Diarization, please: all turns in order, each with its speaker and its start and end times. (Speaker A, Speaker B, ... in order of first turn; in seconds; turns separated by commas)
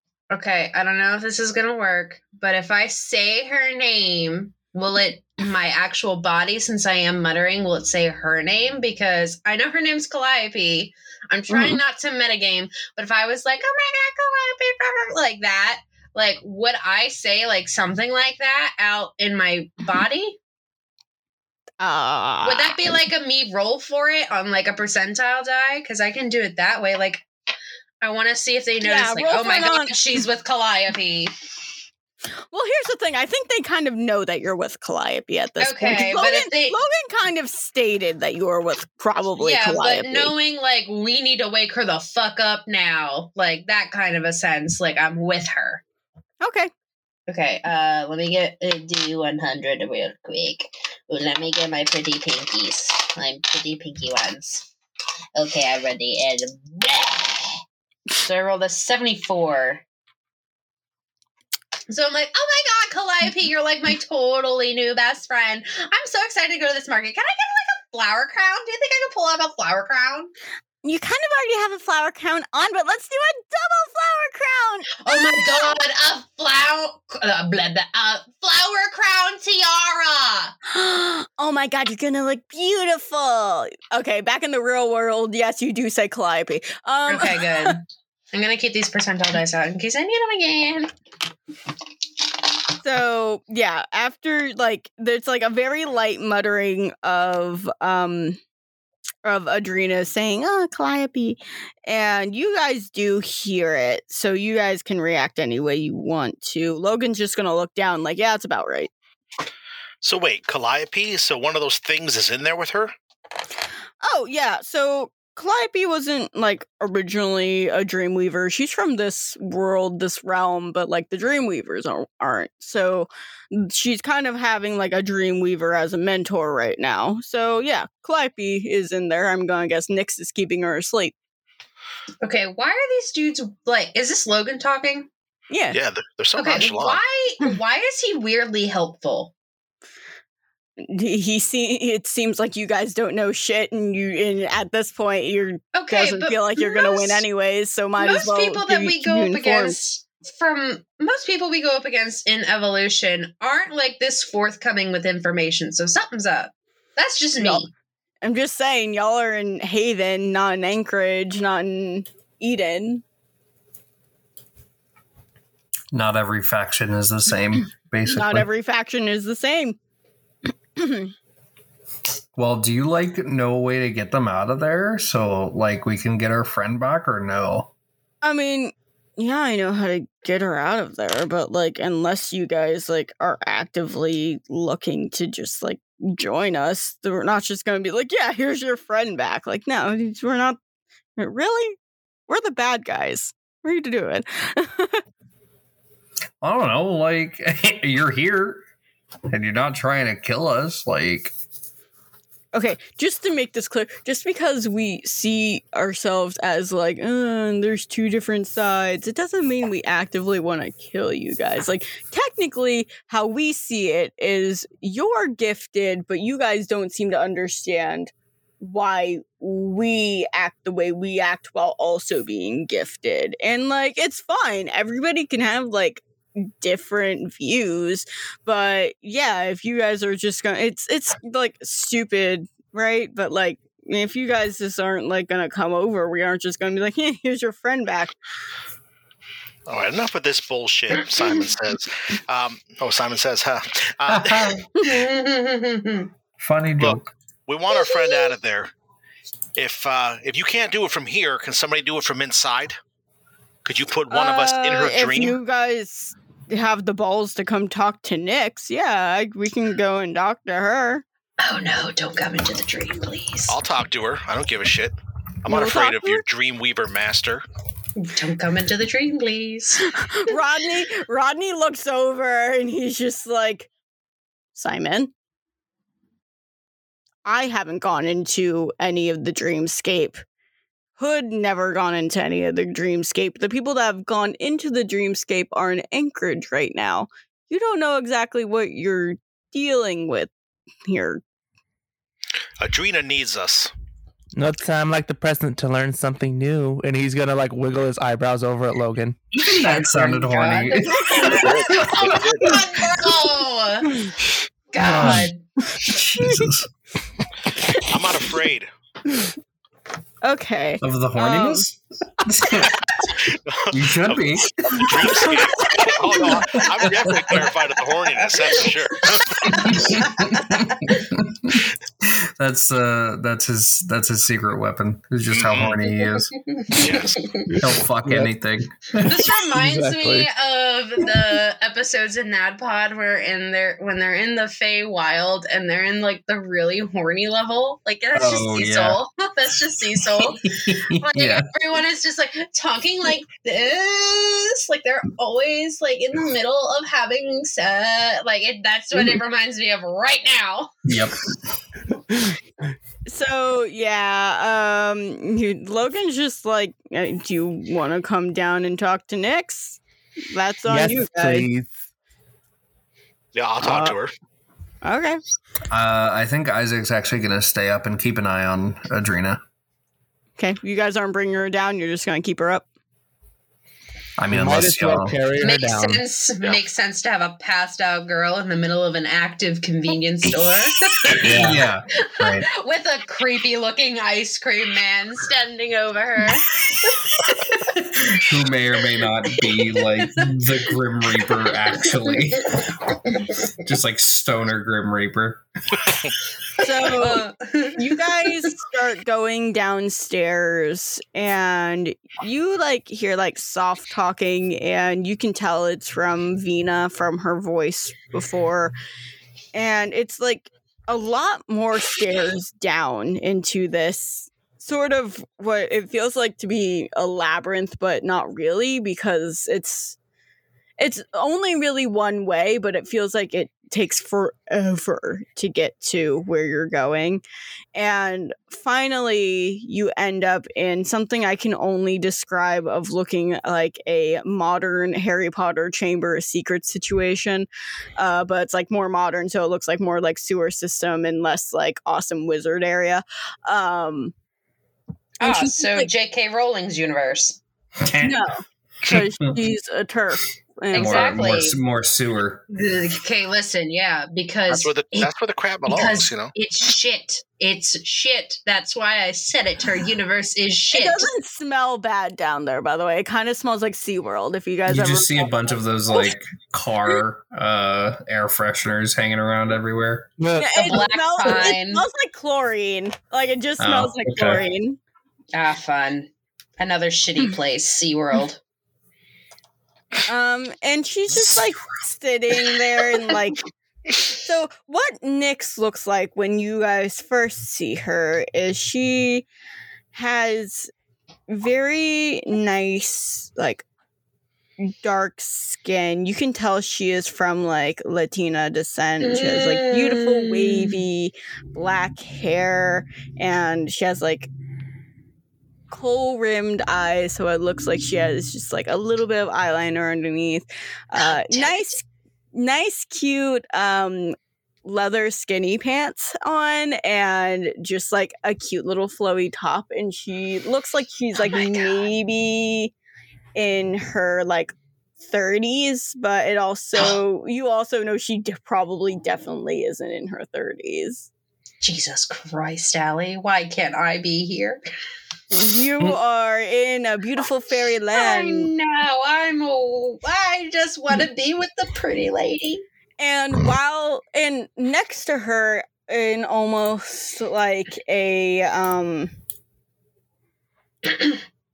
Speaker A: 0.3-20.4, Speaker B: 11.5-11.8, Speaker B: 21.8-22.9, Speaker A: 22.4-27.3, Speaker A: 28.0-31.3, Speaker B: 28.8-30.0, Speaker B: 32.5-40.3, Speaker A: 35.6-36.8, Speaker A: 39.4-45.8, Speaker B: 46.4-46.7, Speaker A: 47.3-54.7, Speaker A: 55.4-57.6, Speaker A: 58.2-59.8, Speaker A: 61.9-70.3, Speaker B: 70.8-75.6, Speaker A: 75.0-80.5, Speaker B: 80.7-87.8, Speaker A: 87.1-90.9, Speaker B: 92.8-98.4, Speaker B: 99.2-108.9, Speaker C: 110.0-112.9, Speaker B: 114.0-131.2, Speaker A: 132.2-135.1, Speaker B: 135.5-135.8, Speaker C: 135.7-137.0, Speaker A: 136.4-139.3, Speaker B: 140.8-149.8, Speaker A: 145.7-147.2, Speaker A: 148.0-157.7, Speaker B: 157.4-157.7, Speaker B: 158.2-163.0, Speaker D: 165.9-168.5, Speaker B: 168.1-169.8, Speaker B: 170.8-171.1, Speaker D: 172.3-177.7, Speaker B: 178.2-190.6, Speaker B: 191.2-191.8, Speaker B: 192.3-195.0, Speaker D: 196.4-198.7, Speaker D: 199.3-201.3, Speaker B: 202.5-238.1, Speaker C: 239.7-244.5, Speaker D: 244.1-244.6, Speaker A: 244.8-246.1, Speaker D: 246.4-247.1, Speaker C: 246.8-248.7, Speaker B: 247.7-248.3, Speaker C: 249.6-252.8, Speaker C: 253.7-255.4, Speaker B: 254.1-261.0, Speaker A: 261.4-263.6, Speaker C: 263.5-267.4, Speaker B: 265.5-266.2, Speaker A: 268.0-269.9, Speaker B: 269.9-273.7, Speaker B: 274.6-275.1, Speaker B: 277.2-280.2, Speaker B: 281.0-290.3, Speaker B: 290.9-291.2, Speaker C: 292.6-293.7, Speaker E: 294.3-299.2, Speaker D: 299.4-302.6, Speaker A: 299.5-303.9, Speaker C: 301.2-302.6, Speaker A: 304.7-305.4, Speaker D: 304.8-305.3, Speaker E: 304.8-305.3, Speaker D: 305.8-306.7, Speaker C: 307.9-308.7, Speaker B: 310.2-311.6, Speaker D: 310.8-312.8, Speaker C: 313.5-319.8, Speaker D: 313.7-315.7, Speaker D: 316.5-317.5, Speaker A: 319.4-321.1, Speaker D: 319.6-326.4, Speaker C: 325.4-325.8, Speaker A: 326.4-327.5, Speaker C: 326.7-327.3, Speaker E: 327.5-328.3, Speaker D: 327.6-329.3, Speaker A: 329.0-340.5, Speaker E: 329.5-330.3, Speaker D: 338.1-339.0, Speaker D: 340.2-341.5, Speaker A: 341.0-350.7, Speaker D: 350.9-351.2, Speaker B: 353.1-359.8, Speaker B: 360.3-361.5, Speaker E: 360.7-361.8, Speaker C: 363.4-364.1, Speaker B: 363.6-363.9, Speaker B: 364.8-365.2, Speaker D: 365.7-369.4, Speaker B: 370.4-372.7, Speaker D: 374.2-375.2, Speaker E: 374.3-376.0, Speaker A: 375.4-381.5, Speaker E: 381.2-381.6, Speaker D: 381.2-382.5, Speaker A: 382.1-387.1, Speaker D: 387.6-392.8, Speaker A: 390.0-390.3, Speaker A: 391.8-393.4, Speaker D: 393.6-395.4, Speaker C: 395.8-396.1, Speaker B: 396.6-408.8, Speaker A: 396.6-398.5, Speaker B: 409.5-420.0, Speaker B: 420.8-427.2, Speaker B: 427.8-444.1, Speaker A: 445.2-447.4, Speaker B: 445.2-445.9, Speaker D: 447.8-448.2, Speaker B: 448.0-451.1, Speaker D: 448.9-449.3, Speaker A: 450.7-451.6, Speaker D: 450.7-452.4, Speaker A: 452.5-455.1, Speaker C: 454.5-456.3, Speaker A: 455.7-461.1, Speaker B: 460.7-466.1, Speaker D: 464.7-470.1, Speaker E: 470.2-470.8, Speaker B: 470.4-474.8, Speaker A: 470.6-471.9, Speaker D: 473.6-474.4, Speaker A: 475.3-478.4, Speaker B: 480.1-483.5, Speaker D: 481.1-481.4, Speaker B: 484.2-489.3, Speaker B: 489.9-490.7, Speaker B: 491.3-493.7, Speaker B: 494.6-504.3, Speaker A: 499.0-500.8, Speaker B: 505.7-522.7, Speaker A: 511.0-511.7, Speaker A: 521.2-521.8, Speaker B: 523.4-531.1, Speaker A: 531.6-534.6, Speaker B: 535.3-538.5, Speaker A: 537.9-542.6, Speaker B: 543.0-549.1